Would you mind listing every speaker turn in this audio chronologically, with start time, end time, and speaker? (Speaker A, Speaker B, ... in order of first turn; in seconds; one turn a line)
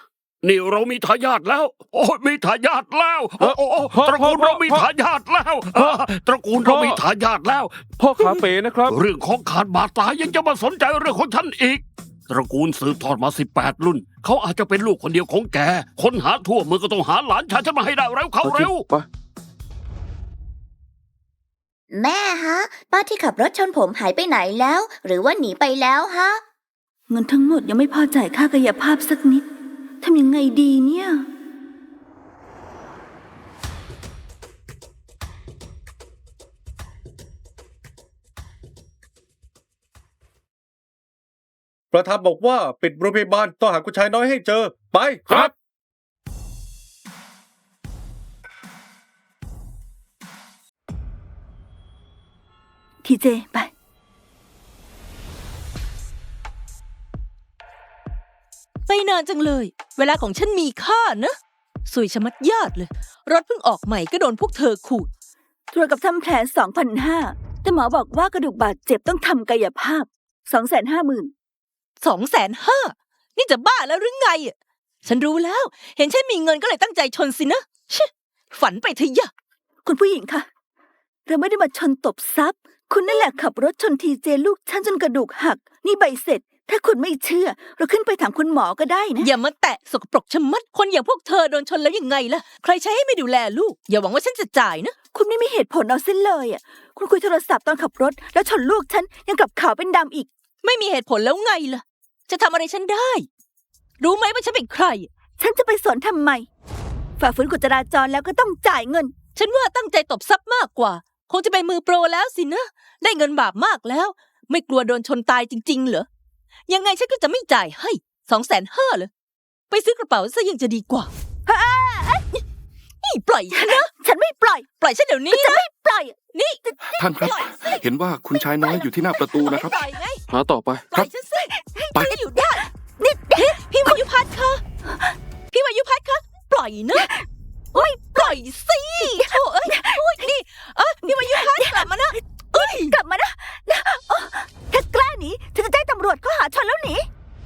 Speaker A: 0.4-18.8
Speaker B: 3.4-4.9
Speaker B: 6.6-7.0
Speaker B: 8.0-8.9
Speaker B: 18.4-19.1
Speaker C: 21.9-26.4
Speaker D: 27.1-29.4
Speaker D: 30.0-31.2
Speaker E: 41.9-45.5
Speaker D: 53.0-53.7
Speaker F: 58.9-65.1
Speaker D: 65.7-71.3
Speaker F: 72.0-74.5
Speaker F: 75.0-79.3
Speaker D: 79.8-80.5
Speaker D: 81.3-89.3
Speaker F: 89.2-94.9
Speaker D: 95.1-100.3
Speaker F: 100.6-103.3
Speaker F: 104.0-105.1
Speaker D: 105.4-106.5
Speaker D: 107.2-109.1
Speaker F: 109.3-116.0
Speaker F: 116.7-119.1
Speaker F: 119.7-121.1
Speaker D: 121.5-122.2
Speaker F: 123.0-123.9
Speaker D: 123.5-124.7
Speaker F: 124.8-125.6
Speaker D: 125.3-127.3
Speaker F: 126.3-126.6
Speaker G: 127.0-129.8
Speaker F: 127.2-127.8
Speaker F: 128.6-130.2
Speaker B: 130.3-130.9
Speaker F: 130.9-132.7
Speaker D: 131.3-134.0
Speaker F: 133.3-134.6
Speaker F: 135.5-137.1
Speaker D: 136.9-138.4
Speaker F: 138.1-142.9
Speaker D: 139.0-140.3
Speaker D: 141.0-147.1